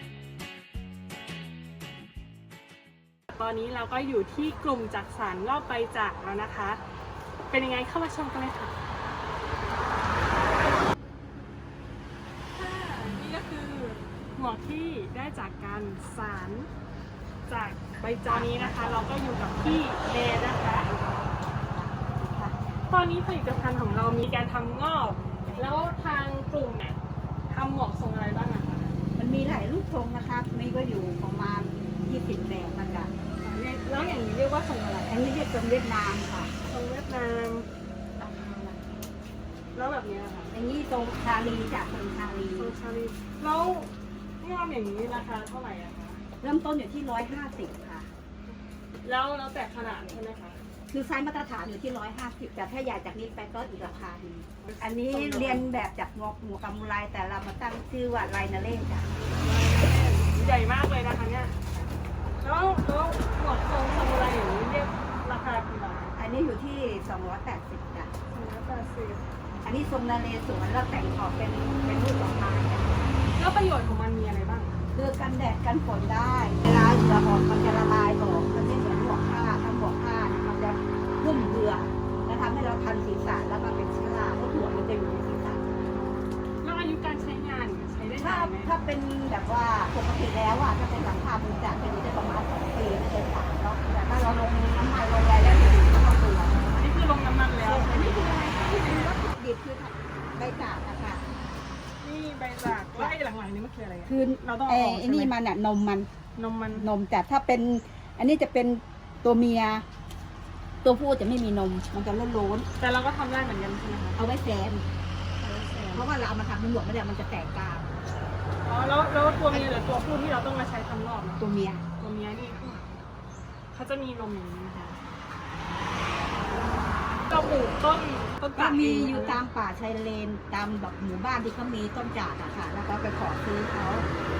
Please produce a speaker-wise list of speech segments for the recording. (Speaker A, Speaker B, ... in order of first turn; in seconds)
Speaker A: 3.3-6.8, 7.5-8.8, 12.5-16.7, 17.5-20.9, 22.9-27.0, 27.5-28.9, 33.4-35.2, 36.6-37.6, 39.7-40.5, 42.6-46.2, 49.0-50.6, 54.6-55.9, 59.2-61.6, 62.4-66.2, 68.3-69.2, 73.3-74.8, 85.9-88.8, 96.6-99.1, 102.0-105.3, 106.3-106.9, 112.8-114.2, 115.4-116.1, 118.6-121.4, 122.0-123.0, 123.7-125.0, 127.3-129.4
Speaker B: 18.0-19.9, 20.8-22.6, 25.2-25.9, 29.1-33.1, 35.1-36.5, 38.2-39.0, 40.5-42.7, 46.4-48.1, 50.9-59.2, 66.2-68.1, 69.6-73.2, 74.9-85.8, 88.2-96.8, 97.6-101.2, 102.7-103.2, 104.0-106.1, 106.7-109.8, 110.8-112.7, 114.2-114.8, 115.9-118.0, 121.4-121.8, 128.5-134.1